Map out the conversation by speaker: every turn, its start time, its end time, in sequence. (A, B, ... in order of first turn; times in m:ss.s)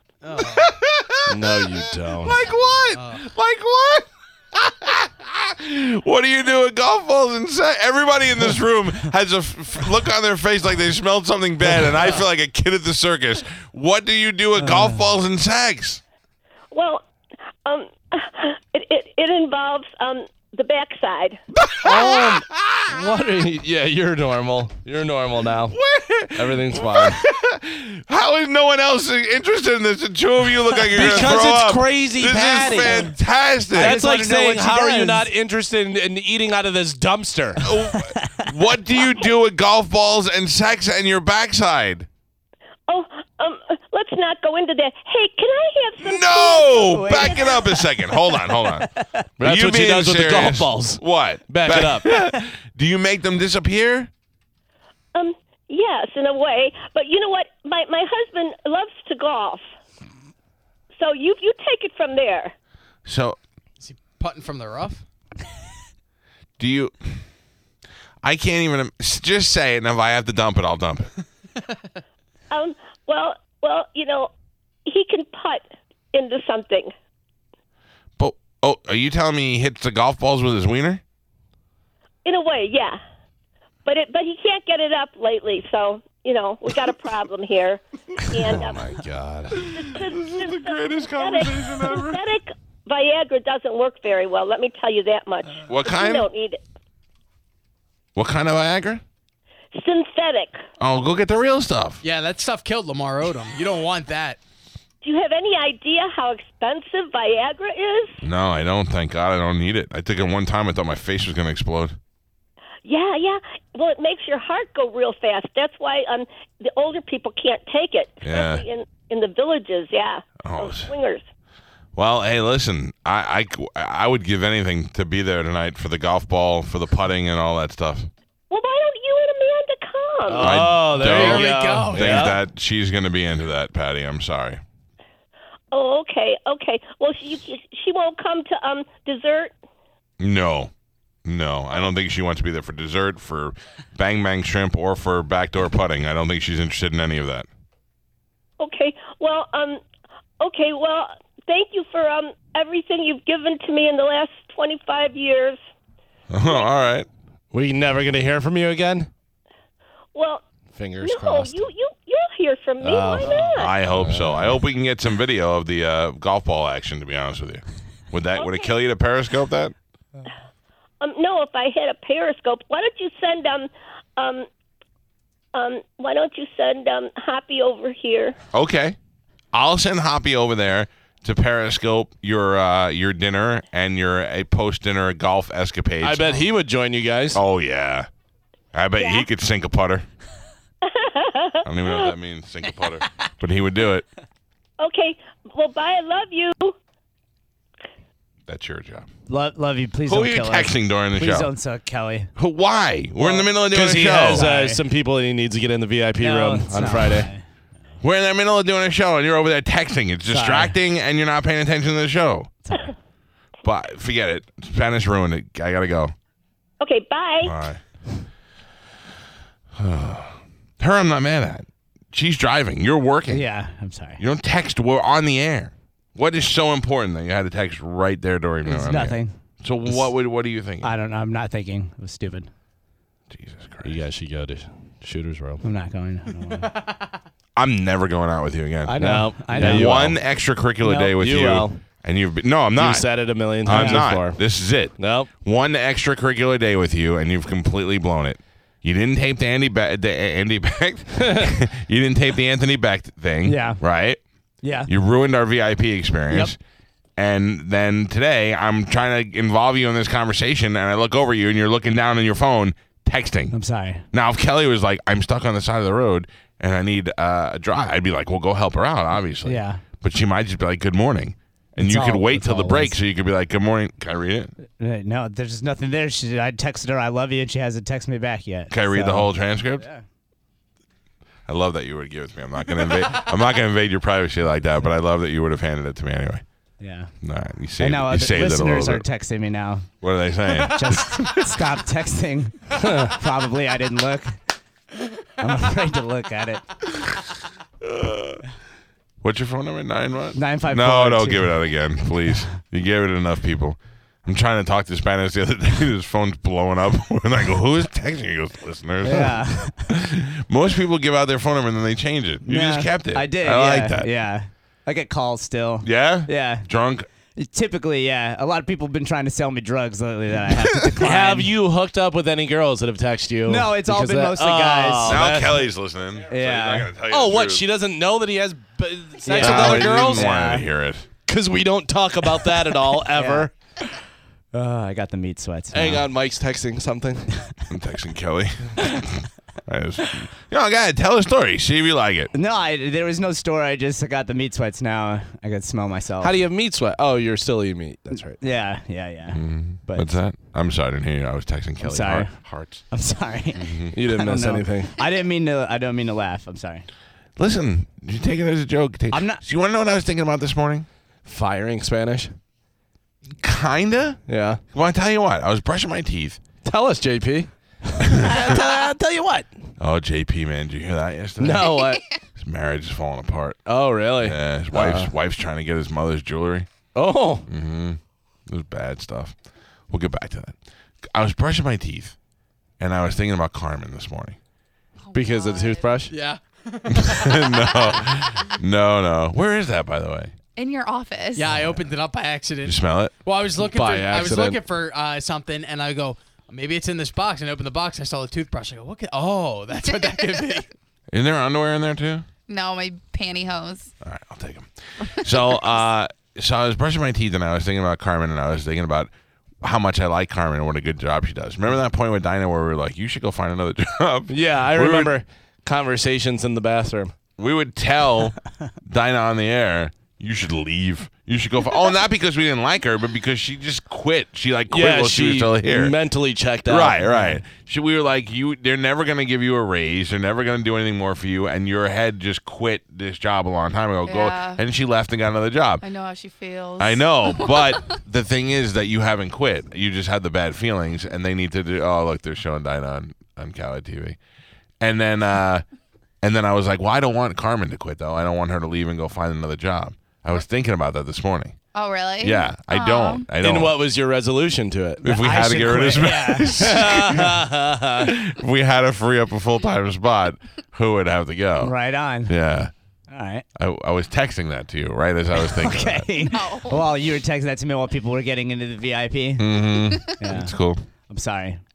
0:00.2-0:00.7 A
0:00.4-0:16.0 B
0:01.3-0:02.4 C
0:02.9-0:03.2 A
0:16.7-0:17.0 D
0:17.6-0:21.4 D
0:21.6-0:23.0 B
0:21.8-0:25.8 C
0:25.7-0:34.0 B
0:26.3-0:27.2 C
0:30.9-0:33.1 C
0:33.7-0:35.3 E
0:33.8-0:37.6 C
0:37.6-0:42.1 B
0:37.9-0:38.4 E
0:42.9-0:47.4 D
0:46.0-0:48.9 B
0:46.9-0:49.2 E
0:49.4-0:52.1 C
0:49.4-0:54.1 B
0:55.1-0:59.6 D
1:00.9-1:02.5 D
1:03.0-1:03.4 B
1:03.8-1:05.0 A
1:06.6-1:07.2 B
1:08.2-1:11.1 B
1:12.5-1:14.3 D
1:14.8-1:16.9 D
1:18.2-1:21.0 B
1:22.2-1:23.0 D
1:23.8-1:28.9 D
1:28.4-1:29.6 C
1:29.5-1:32.2 B
1:29.7-1:36.6 D
1:35.7-1:36.3 B
1:38.2-1:39.0 B
1:39.7-1:40.6 D
1:40.8-1:42.0 B
1:42.0-1:44.4 A
1:45.0-1:48.2 D
1:48.2-1:52.0 B
1:52.8-2:01.2 D
1:58.2-1:58.6 B
2:00.4-2:00.9 B
2:01.9-2:08.1 B
2:08.5-2:10.6 D
2:10.2-2:12.4 C
2:10.4-2:14.6 B
2:11.0-2:12.2 A
2:15.7-2:19.5 D
2:20.2-2:20.7 B
2:21.2-2:27.5 B
2:28.6-2:29.8 D
2:30.4-2:35.6 D
2:36.3-2:37.1 B
2:37.5-2:39.1 C
2:40.1-2:40.4 D
2:40.7-2:41.6 C
2:41.0-2:43.7 D
2:42.8-2:44.5 C
2:43.5-2:49.7 B
2:48.3-2:48.7 D
2:51.0-2:54.5 D
2:55.5-2:58.4 D
2:58.5-2:59.0 B
2:59.5-3:06.4 B
3:06.0-3:07.4 C
3:07.3-3:08.1 B
3:08.7-3:10.0 B
3:10.9-3:11.6 D
3:11.6-3:14.0 B
3:14.8-3:16.7 D
3:18.5-3:19.1 B
3:19.3-3:22.3 E
3:20.1-3:21.5 B
3:22.4-3:24.5 B
3:23.2-3:23.6 E
3:23.7-3:27.3 C
3:24.1-3:24.8 E
3:26.2-3:27.4 E
3:28.0-3:32.5 B
3:30.3-3:30.8 E
3:33.6-3:36.1 B
3:36.8-3:37.5 D
3:37.4-3:37.8 B
3:39.8-3:43.4 B
3:43.3-3:44.2 E
3:44.2-3:50.9 B
3:48.6-3:50.2 E
3:50.8-3:52.5 E
3:53.3-3:54.0 B
3:53.8-3:55.6 C
3:55.6-3:56.8 E
3:57.6-4:14.2 B
3:58.8-4:00.1 E
3:59.0-4:00.2 C
4:00.8-4:01.8 C
4:02.8-4:04.4 C
4:03.7-4:04.1 E
4:05.0-4:05.3 C
4:13.4-4:13.8 E
4:14.6-4:14.9 E
4:14.9-4:16.6 B
4:17.2-4:23.6 B
4:23.5-4:24.0 E
4:24.1-4:34.5 B
4:29.4-4:29.8 E
4:31.8-4:33.0 E
4:34.8-4:40.0 E
4:38.7-4:39.8 B
4:41.5-4:46.4 B
4:46.8-4:47.1 E
4:47.2-4:49.0 B
4:47.8-4:49.9 E
4:50.0-4:51.1 B
4:50.5-4:54.4 E
4:55.4-4:56.9 E
4:57.8-4:58.4 B
4:59.2-5:14.1 B
5:00.3-5:01.6 E
5:09.0-5:09.9 E
5:12.4-5:16.7 E
5:15.8-5:17.1 B
5:17.3-5:21.5 E
5:21.0-5:25.7 C
5:23.4-5:25.3 E
5:25.1-5:27.6 B
5:26.3-5:26.9 E
5:27.0-5:30.3 C
5:29.2-5:30.7 E
5:29.3-5:31.1 B
5:31.3-5:33.5 C
5:32.9-5:33.5 E
5:34.5-5:36.1 E
5:35.7-5:37.3 C
5:37.7-5:42.3 B
5:42.3-5:46.4 E
5:46.2-5:48.4 C
5:48.4-5:50.2 E
5:49.3-5:52.8 B
5:51.8-5:56.8 E
5:53.6-5:53.9 B
5:53.9-5:54.9 C
5:57.4-6:00.8 B
5:59.1-5:59.4 E
6:01.2-6:02.3 C
6:03.4-6:06.4 B
6:04.3-6:04.6 C
6:06.6-6:09.5 C
6:09.8-6:11.8 B
6:11.4-6:12.0 C
6:12.4-6:13.6 B
6:13.7-6:15.1 C
6:14.2-6:16.7 B
6:16.9-6:17.5 C
6:17.5-6:19.4 B
6:19.9-6:20.6 B
6:21.1-6:22.1 B
6:22.8-6:24.4 B
6:25.1-6:26.0 F
6:25.1-6:26.1 C
6:26.1-6:27.5 A
6:26.9-6:30.3 B
6:30.6-6:31.5 F
6:31.3-6:40.7 A
6:32.6-6:33.1 B
6:33.6-6:34.6 C
6:41.1-6:42.2 B
6:42.5-6:43.9 F
6:44.0-6:49.1 B
6:49.6-6:55.1 B
6:54.3-6:57.1 C
6:57.4-7:06.0 B
7:04.7-7:07.0 C
7:06.6-7:15.8 B
7:07.1-7:07.4 E
7:14.0-7:14.6 F
7:15.8-7:17.9 F
7:16.8-7:24.2 B
7:24.8-7:25.6 B
7:26.2-7:31.6 B
7:31.7-7:33.3 F
7:32.2-7:33.7 B
7:33.4-7:35.0 C
7:35.0-7:37.4 B
7:35.0-7:36.5 E
7:36.6-7:38.0 C
7:37.9-7:42.7 B
7:41.6-7:42.3 E
7:43.1-7:43.4 E
7:43.6-7:46.1 B
7:45.4-7:50.6 E
7:46.2-7:46.8 F
7:49.4-7:50.8 B
7:51.1-7:51.6 E